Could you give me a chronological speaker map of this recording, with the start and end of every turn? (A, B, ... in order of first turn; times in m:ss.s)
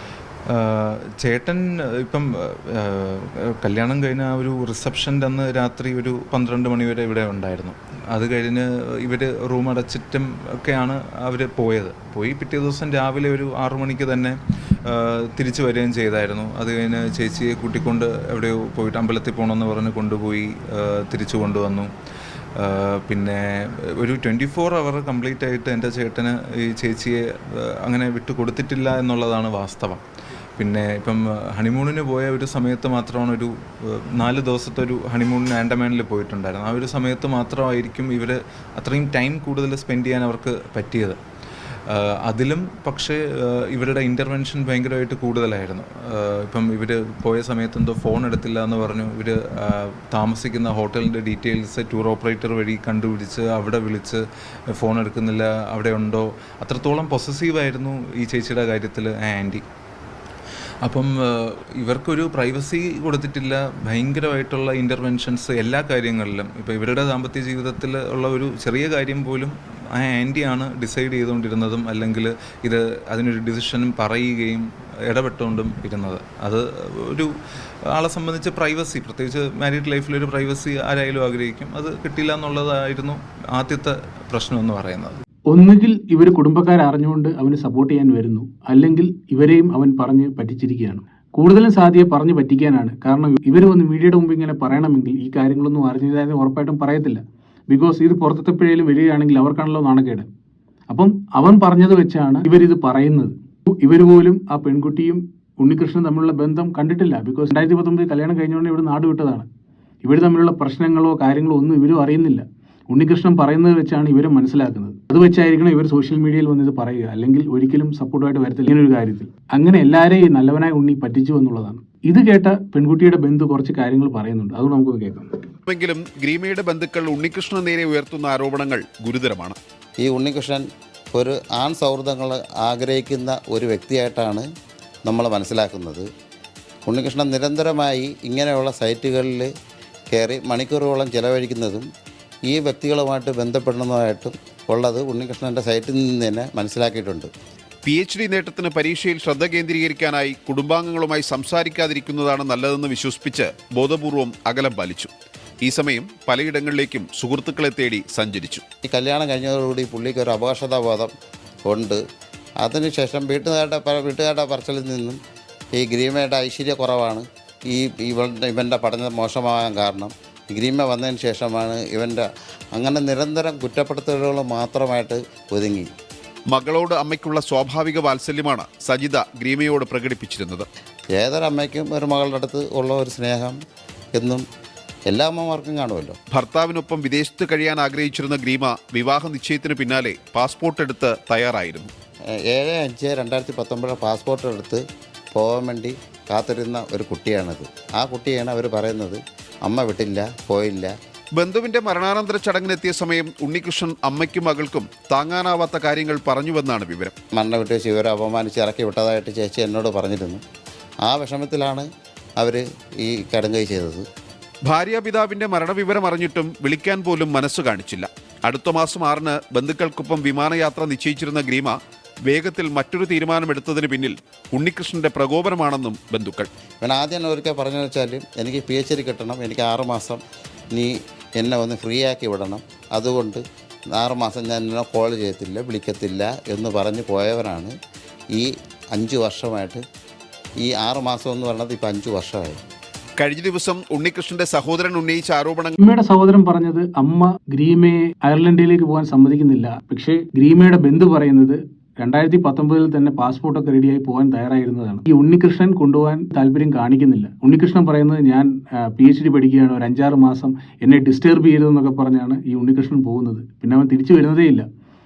0:00.5-0:21.9 A
0:22.6-0:30.0 A
0:30.6-0:41.2 A
0:41.9-0:59.6 A
1:00.8-1:17.3 A
1:17.9-1:25.2 A
1:25.5-1:40.3 B
1:40.9-1:49.5 B
1:50.0-2:05.3 B
2:05.8-2:09.5 C
2:10.0-2:14.4 D
2:15.1-2:16.0 D
2:16.9-2:19.5 D
2:20.1-2:21.9 D
2:22.5-2:27.3 D
2:27.9-2:35.0 C
2:35.8-2:38.6 C
2:38.8-2:41.1 D
2:41.7-2:42.0 D
2:42.6-2:45.2 D
2:45.8-2:55.9 D
2:56.6-3:00.6 C
3:01.2-3:03.6 D
3:04.2-3:04.4 D
3:05.1-3:06.2 D
3:06.5-3:11.8 C
3:12.5-3:20.9 D
3:21.4-3:27.1 C
3:27.3-3:30.4 D
3:31.0-3:31.9 D
3:32.4-3:34.0 D
3:34.8-3:41.7 C
3:42.3-3:46.4 C
3:46.8-3:50.2 D
3:50.7-3:53.4 D
3:54.0-3:57.7 D
3:58.4-3:59.8 D
4:00.6-4:02.6 D
4:03.3-4:05.7 C
4:05.8-4:24.7 B